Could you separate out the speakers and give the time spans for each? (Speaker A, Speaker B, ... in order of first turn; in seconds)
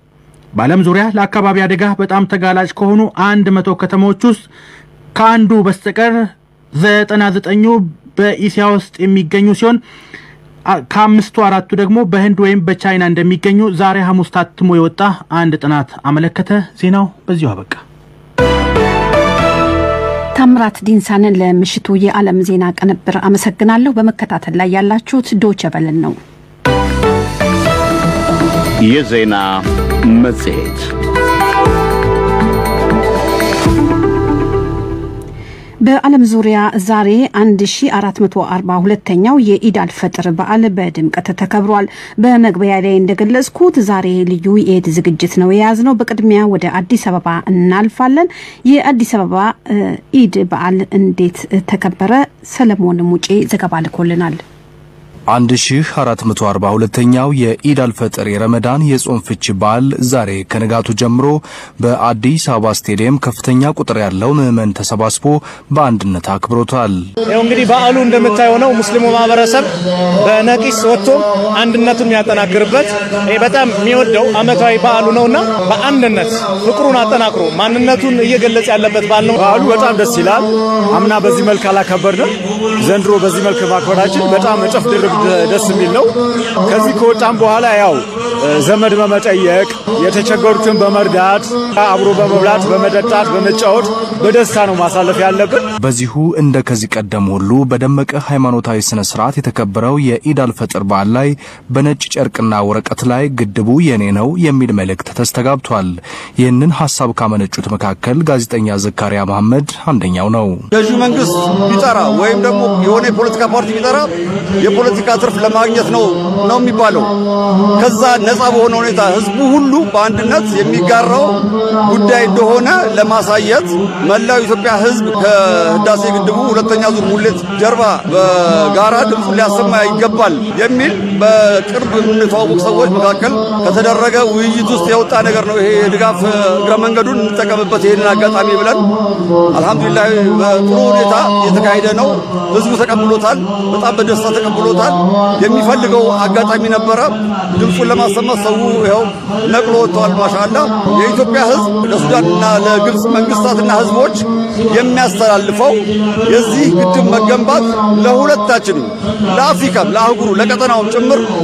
Speaker A: 0.5-4.5, 5.1-9.8, 10.7-17.8
Speaker B: 20.4-26.2, 35.8-54.4
Speaker C: 28.8-30.9
Speaker D: 55.3-67.1, 95.8-110.6
Speaker E: 67.3-79.4
Speaker F: 79.3-86.1, 86.6-95.6
Speaker G: 110.7-117.1, 117.8-138.9, 139.5-161.3